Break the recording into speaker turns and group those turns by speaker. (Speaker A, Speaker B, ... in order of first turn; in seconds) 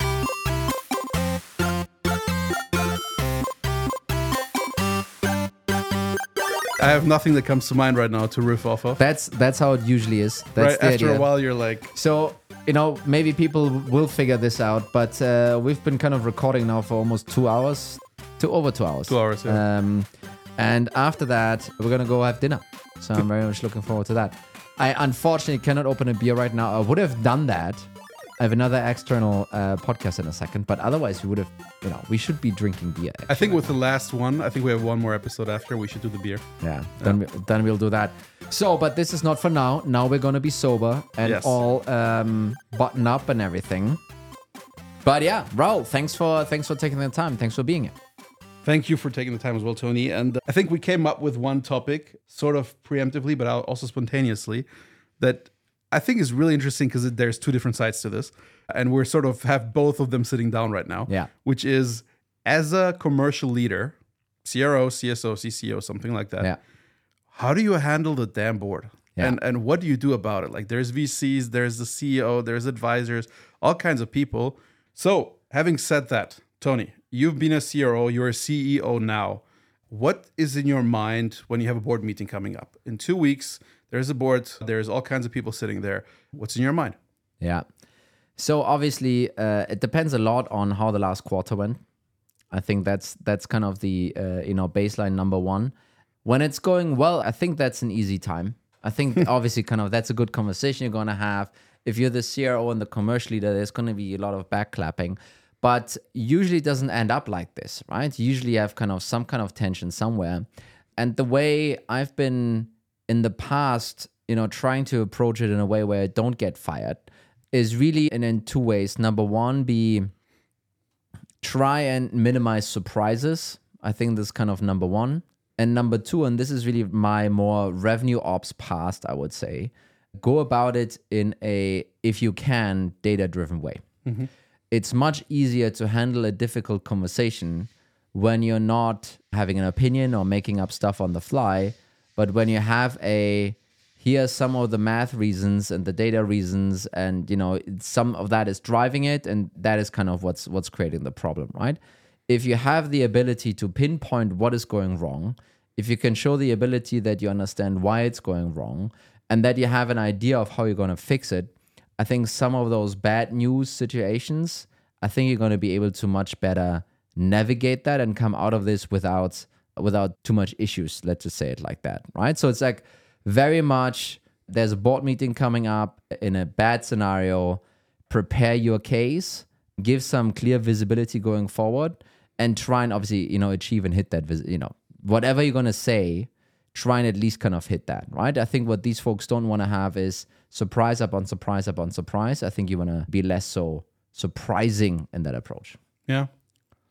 Speaker A: 6.8-9.0, 10.6-11.9, 19.1-19.6, 33.3-36.4, 41.2-41.6, 48.6-54.7, 55.2-66.5, 67.3-87.0
Speaker B: 9.0-11.3, 11.9-20.1, 20.6-27.9, 28.4-33.7, 36.6-44.0, 45.0-47.9, 87.4-87.7, 88.4-91.8, 92.5-95.7, 96.2-110.4, 111.0-120.1, 121.4-133.8, 134.7-195.8